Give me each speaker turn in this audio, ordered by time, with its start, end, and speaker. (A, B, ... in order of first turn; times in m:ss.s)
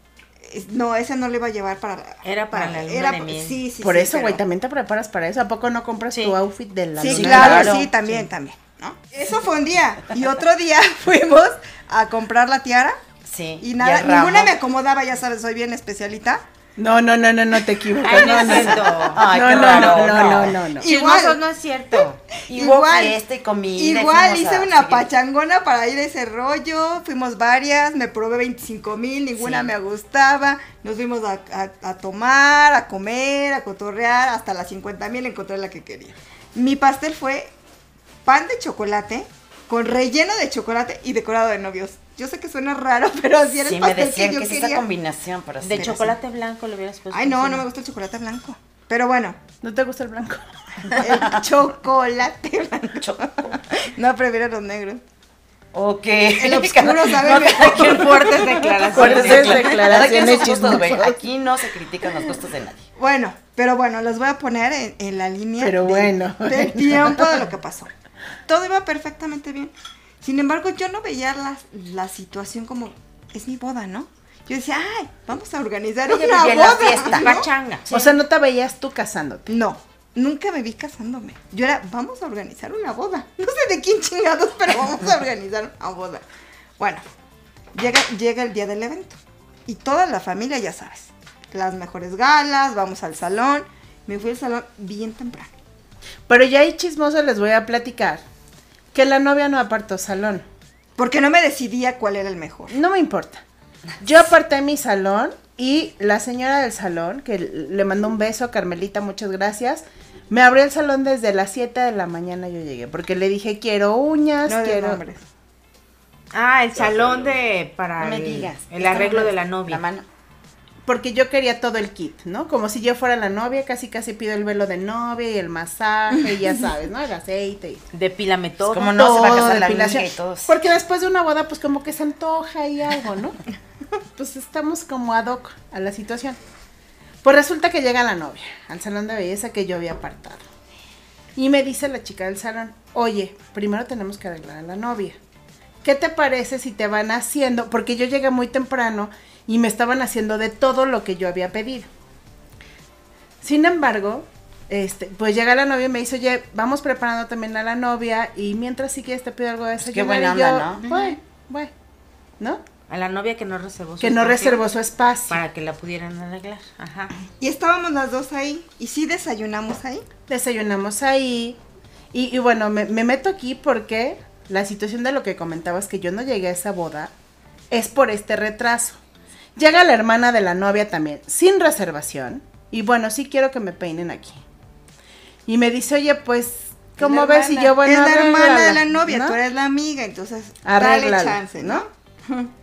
0:00.4-0:04.4 A
0:02.2-0:03.6 B
0:03.8-0:07.9 C
0:06.1-0:06.4 B
0:07.0-0:13.0 A
0:07.1-0:07.9 D
0:13.3-0:14.5 D
0:13.6-0:16.4 A
0:16.8-0:20.9 C
0:18.0-0:22.2 B
0:18.2-0:21.4 A
0:18.4-0:20.6 D
0:21.9-0:23.2 A
0:22.5-0:25.1 D
0:23.8-0:37.5 A
0:29.4-0:29.7 D
0:38.2-0:44.8 A
0:43.6-0:46.2 D
0:45.6-0:47.7 B
0:47.1-0:49.4 A
0:49.6-0:50.8 C
0:50.9-0:51.4 D
0:51.0-0:55.0 A
0:53.0-0:53.6 D
0:55.7-1:02.8 D
0:56.4-0:58.9 A
0:57.4-1:00.0 B
0:58.9-1:01.2 C
1:03.0-1:07.9 A
1:05.6-1:07.4 C
1:08.5-1:17.5 A
1:16.1-1:18.1 D
1:16.5-1:17.9 B
1:17.9-1:19.5 C
1:19.5-1:26.2 A
1:26.8-1:27.0 A
1:27.8-1:35.5 A
1:36.3-1:38.2 C
1:38.9-1:40.4 C
1:41.0-1:42.8 A
1:42.7-1:43.4 C
1:44.0-1:55.0 C
1:54.4-1:55.2 A
1:56.3-1:59.8 B
1:58.0-2:00.1 D
2:00.8-2:07.8 C
2:07.9-2:09.4 B
2:08.7-2:10.5 D
2:08.8-2:13.4 C
2:14.2-2:16.4 C
2:17.2-2:20.4 C
2:21.4-2:25.2 C
2:25.8-2:31.9 C
2:33.4-2:41.7 C
2:39.8-2:40.8 D
2:40.8-2:41.2 B
2:42.9-2:44.6 B
2:44.0-2:45.4 C
2:45.3-2:47.1 B
2:47.4-2:50.0 A
2:50.3-2:51.6 C
2:52.1-2:57.1 C
2:57.7-2:59.0 C
2:59.6-3:04.4 C
3:05.5-3:09.4 C
3:07.0-3:07.8 D
3:07.8-3:12.5 A
3:10.6-3:11.8 C